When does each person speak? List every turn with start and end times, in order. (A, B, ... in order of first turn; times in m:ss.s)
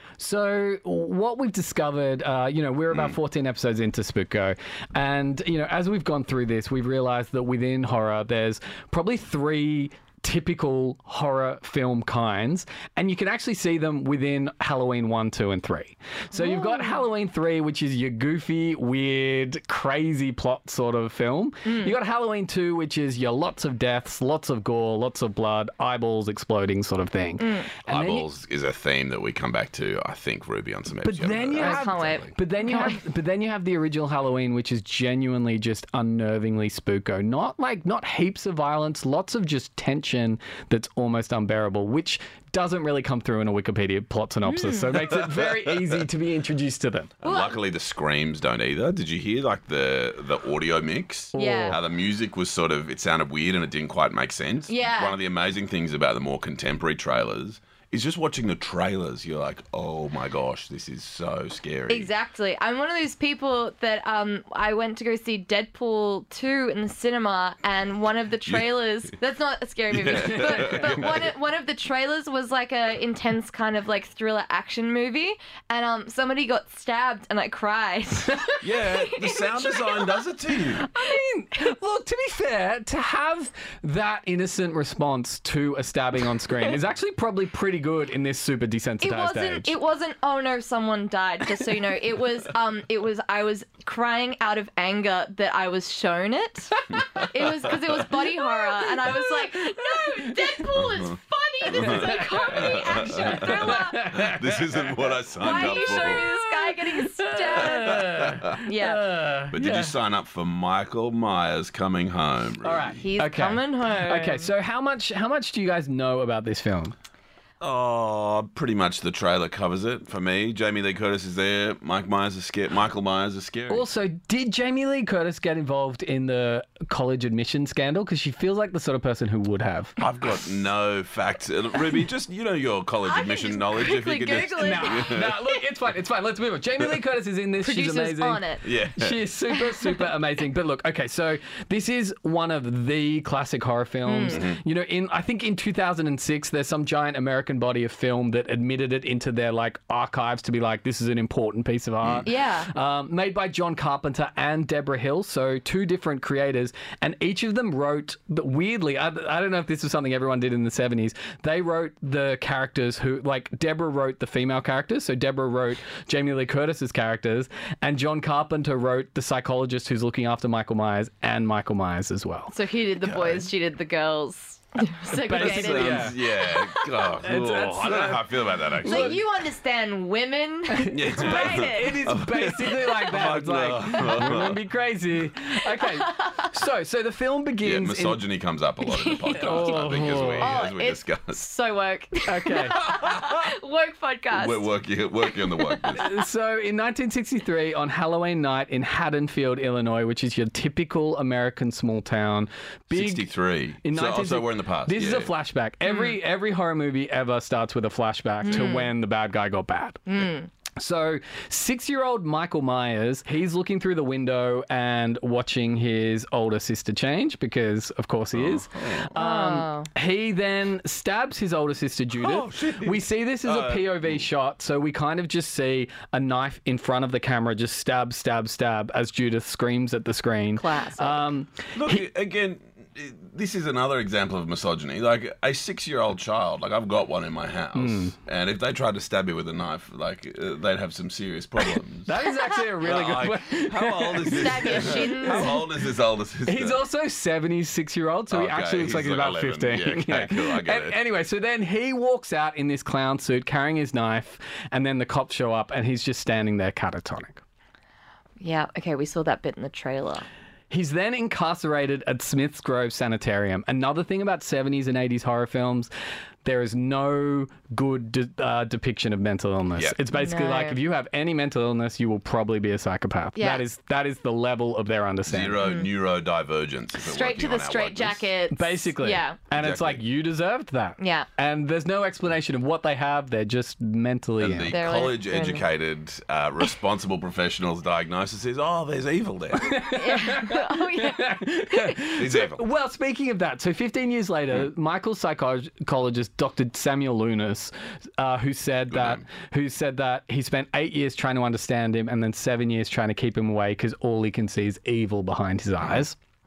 0:00.2-0:28.3 A
0:16.3-0:17.0 B
0:21.7-0:22.0 B
0:27.4-0:27.7 B
0:27.9-0:32.3 C
0:31.0-0:47.1 A
0:31.6-0:33.0 B
0:44.4-0:45.0 B
0:47.2-1:02.1 C
0:47.2-0:47.6 B
0:51.3-0:51.8 A
0:51.4-0:51.8 B
0:54.7-0:55.2 B
1:01.9-1:20.3 B
1:09.9-1:11.3 C
1:18.6-1:20.9 C
1:20.8-1:29.7 A
1:20.9-1:21.2 B
1:29.0-1:44.1 B
1:39.0-1:40.5 A
1:40.8-1:46.3 C
1:41.8-1:50.0 A
1:45.4-1:49.1 B
1:47.8-1:48.5 C
1:49.5-1:53.0 C
1:52.6-1:57.0 A
1:53.0-1:54.5 B
1:57.6-2:03.9 C
2:03.7-2:10.0 A
2:10.0-2:15.3 C
2:13.0-2:15.4 B
2:14.6-2:52.5 A
2:17.6-2:18.6 B
2:18.6-2:19.2 C
2:19.6-2:20.0 B
2:24.1-2:24.4 B
2:24.3-2:24.6 C
2:32.2-2:32.7 B
2:52.5-2:56.9 B
2:53.0-2:53.5 C
2:55.1-2:56.2 A
2:55.3-2:59.2 C
2:57.2-2:58.3 A
2:58.8-2:59.2 A
2:58.8-3:02.0 B
3:00.7-3:08.2 A
3:00.9-3:04.6 C
3:05.8-3:06.5 B
3:07.6-3:11.4 C
3:08.8-3:14.7 B
3:09.4-3:10.6 A
3:12.3-3:12.8 A
3:12.8-3:13.4 C
3:14.3-3:16.1 C
3:15.3-3:16.0 B
3:16.0-3:23.3 A
3:22.9-3:25.3 C
3:23.8-3:30.0 A
3:25.8-3:26.2 B
3:28.4-3:28.9 B
3:30.1-3:30.5 B
3:30.8-3:52.1 A
3:38.3-3:39.1 C
3:39.2-3:39.9 B
3:42.1-3:44.2 C
3:50.6-3:51.2 B
3:51.8-4:02.2 C
3:57.8-3:58.2 A
4:02.1-4:05.6 A
4:02.8-4:06.8 C
4:04.3-4:05.6 B
4:06.4-4:17.4 A
4:08.3-4:11.0 C
4:18.4-4:20.3 B
4:20.7-4:25.9 A
4:26.4-4:35.7 A
4:30.1-4:30.8 B
4:33.4-4:33.6 B
4:35.3-4:38.3 C
4:35.6-4:35.9 B
4:37.0-4:39.4 B
4:38.5-4:44.8 A
4:39.6-4:40.0 C
4:41.0-4:41.3 B
4:44.4-4:49.8 C
4:44.7-4:45.6 B
4:49.6-5:06.2 A
4:49.9-4:51.9 B
4:52.2-4:52.6 C
4:58.9-4:59.2 C